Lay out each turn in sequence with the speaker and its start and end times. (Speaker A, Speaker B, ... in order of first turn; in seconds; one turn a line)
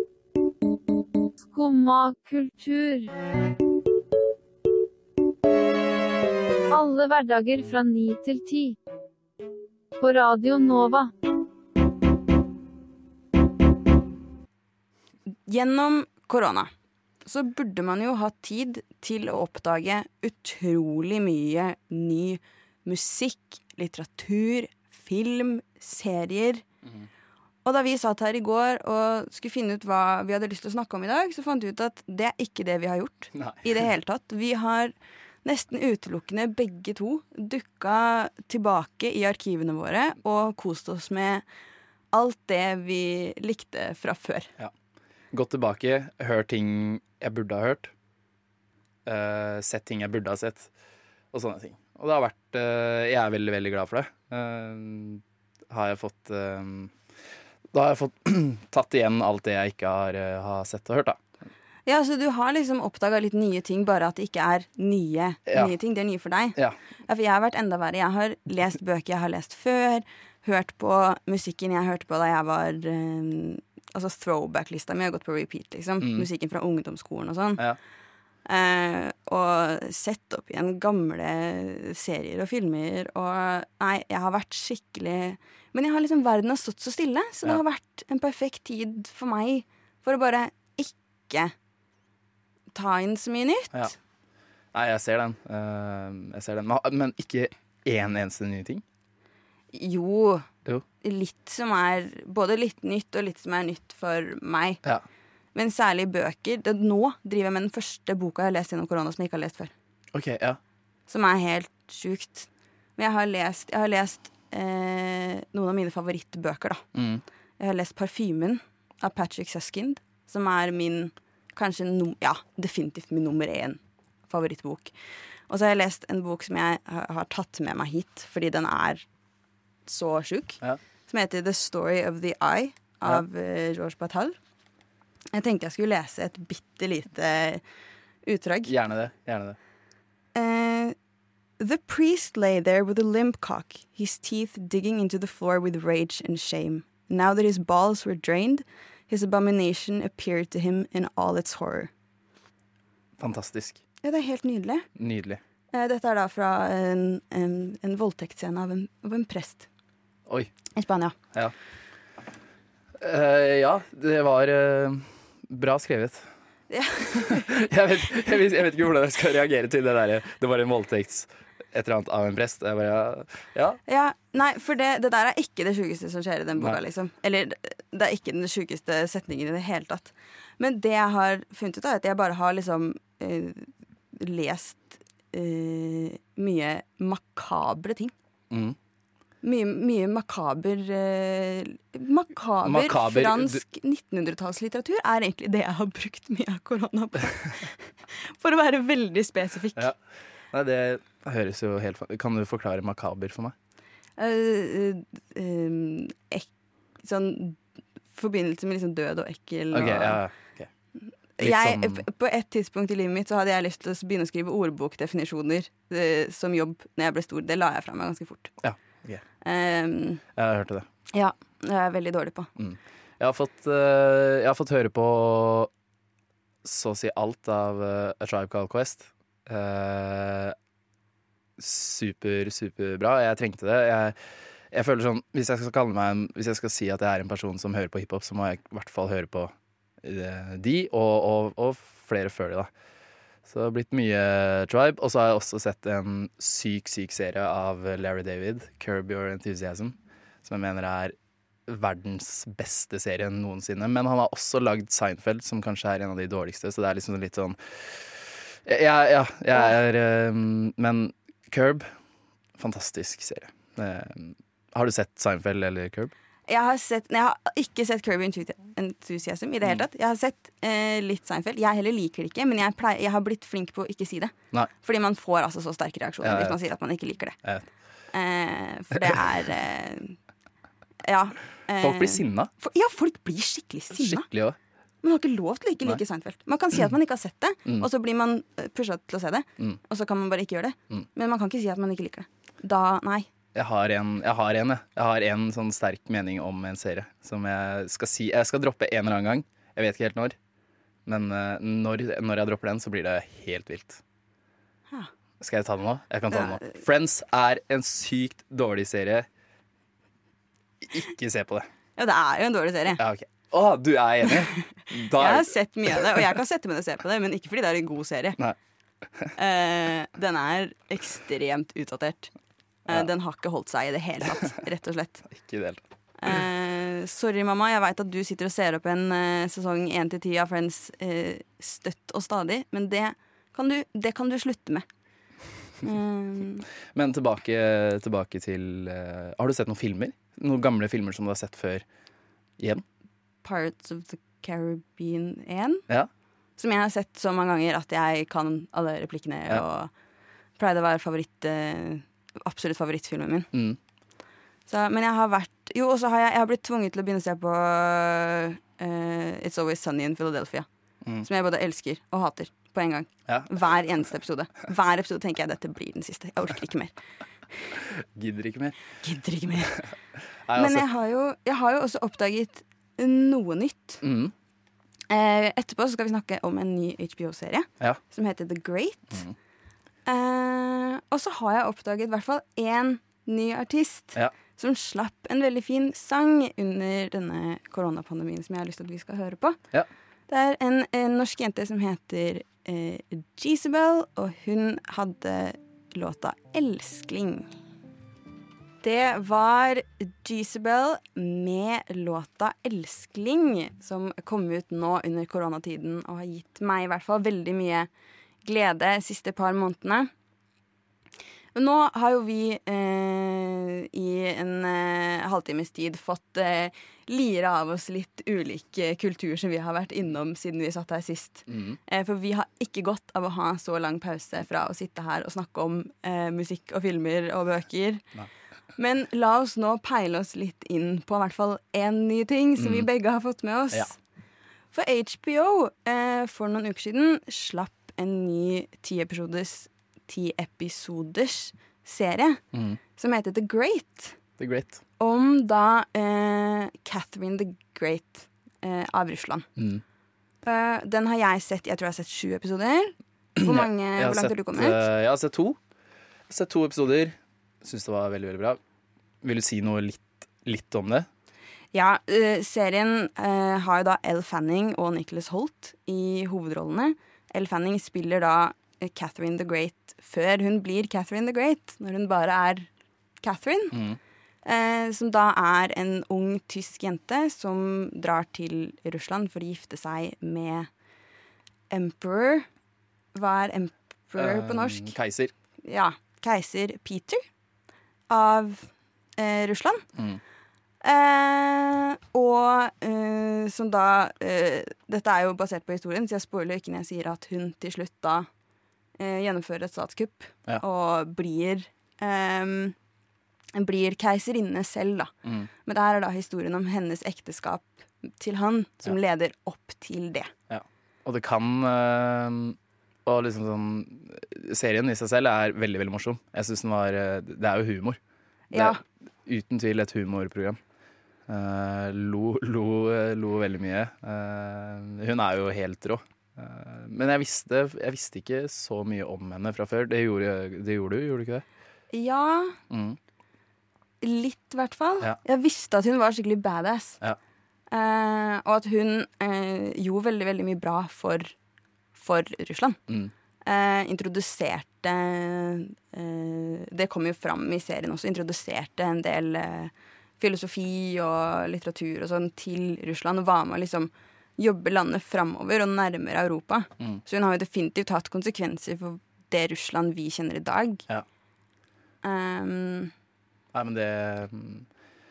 Speaker A: 1.5-3.1
Speaker A: 6.7-8.8
Speaker A: 10.0-11.1
Speaker B: 15.3-16.7
Speaker B: 17.2-26.6
Speaker B: 27.6-41.4
Speaker C: 33.3-33.6
Speaker B: 42.1-44.5
Speaker C: 45.3-47.9
Speaker C: 49.0-50.7
Speaker C: 51.3-56.9
Speaker C: 57.7-61.2
Speaker B: 61.9-77.6
Speaker C: 65.5-65.7
Speaker C: 76.0-76.3
Speaker B: 78.5-91.5
Speaker B: 92.7-93.9
Speaker C: 94.7-98.8
Speaker B: 99.7-100.5
Speaker B: 101.0-104.8
Speaker B: 105.5-109.7
Speaker C: 110.1-110.6
Speaker B: 111.1-116.8
Speaker C: 116.9-117.2
Speaker B: 117.6-124.9
Speaker B: 125.5-129.1
Speaker B: 129.8-134.3
Speaker B: 135.3-137.6
Speaker B: 138.2-138.7
Speaker C: 138.7-139.6
Speaker B: 140.3-140.9
Speaker B: 141.6-151.9
Speaker C: 153.2-153.8
Speaker B: 154.0-154.8
Speaker C: 154.9-155.4
Speaker B: 155.7-159.7
Speaker B: 160.8-161.2
Speaker C: 163.0-166.2
Speaker B: 166.7-167.6
Speaker C: 167.2-173.8
Speaker B: 173.9-188.1
Speaker C: 188.5-188.8
Speaker B: 189.4-199.9
Speaker C: 192.6-193.6
Speaker C: 200.5-203.5
Speaker B: 204.2-206.5
Speaker B: 207.0-207.6
Speaker B: 208.1-210.2
Speaker C: 209.7-210.7
Speaker B: 211.4-218.5
Speaker C: 211.4-212.0
Speaker C: 218.6-219.2
Speaker B: 219.4-220.2
Speaker C: 220.4-220.9
Speaker B: 221.1-222.5
Speaker C: 222.6-225.7
Speaker C: 226.6-230.6
Speaker C: 231.6-234.2
Speaker C: 234.7-242.7
Speaker C: 243.4-251.2
Speaker C: 251.7-261.9
Speaker C: 262.6-266.1
Speaker B: 266.5-277.4
Speaker C: 276.2-276.6
Speaker B: 278.1-280.2
Speaker B: 281.0-284.3
Speaker C: 281.8-282.5
Speaker C: 283.9-284.6
Speaker B: 285.0-293.3
Speaker C: 293.5-300.4
Speaker C: 301.1-304.0
Speaker C: 305.4-309.3
Speaker B: 306.3-306.8
Speaker C: 310.8-311.7
Speaker B: 312.0-313.0
Speaker C: 313.0-316.2
Speaker B: 315.0-318.4
Speaker B: 319.4-322.3
Speaker B: 322.9-325.3
Speaker C: 325.3-326.3
Speaker B: 326.2-334.8
Speaker B: 335.8-336.6
Speaker C: 336.9-341.8
Speaker B: 343.4-345.8
Speaker B: 346.6-349.9
Speaker B: 350.6-353.5
Speaker C: 353.5-353.8
Speaker B: 354.7-360.7
Speaker B: 361.2-366.9
Speaker C: 367.7-368.8
Speaker B: 369.0-369.8
Speaker C: 370.4-370.8
Speaker B: 370.6-374.0
Speaker C: 374.0-374.3
Speaker B: 375.1-379.2
Speaker B: 380.1-389.6
Speaker B: 390.3-397.5
Speaker B: 398.8-407.9
Speaker B: 408.4-410.1
Speaker B: 411.5-428.0
Speaker C: 421.5-421.8
Speaker B: 428.8-434.0
Speaker C: 432.6-432.9
Speaker B: 434.7-442.4
Speaker C: 442.5-442.8
Speaker B: 443.0-444.1
Speaker C: 444.4-444.8
Speaker B: 445.0-449.5
Speaker C: 449.6-449.8
Speaker B: 450.4-454.8
Speaker C: 453.4-455.6
Speaker C: 456.3-458.6
Speaker C: 459.2-461.1
Speaker B: 461.7-472.7
Speaker B: 473.2-473.8
Speaker C: 473.7-474.0
Speaker B: 474.4-480.7
Speaker B: 481.7-482.5
Speaker B: 483.1-484.9
Speaker C: 484.1-485.3
Speaker B: 485.6-487.2
Speaker B: 488.1-489.8
Speaker C: 489.9-490.2
Speaker B: 490.8-498.3
Speaker B: 499.0-502.7
Speaker B: 503.5-505.1
Speaker C: 505.2-505.5
Speaker B: 505.6-510.3
Speaker C: 510.5-518.0
Speaker B: 518.5-518.8
Speaker C: 518.5-520.6
Speaker C: 521.3-531.4
Speaker B: 531.9-532.6
Speaker C: 532.7-533.0
Speaker B: 534.0-537.0
Speaker B: 537.7-541.3
Speaker B: 541.9-542.8
Speaker B: 543.4-560.8
Speaker B: 562.0-562.9
Speaker C: 563.5-564.6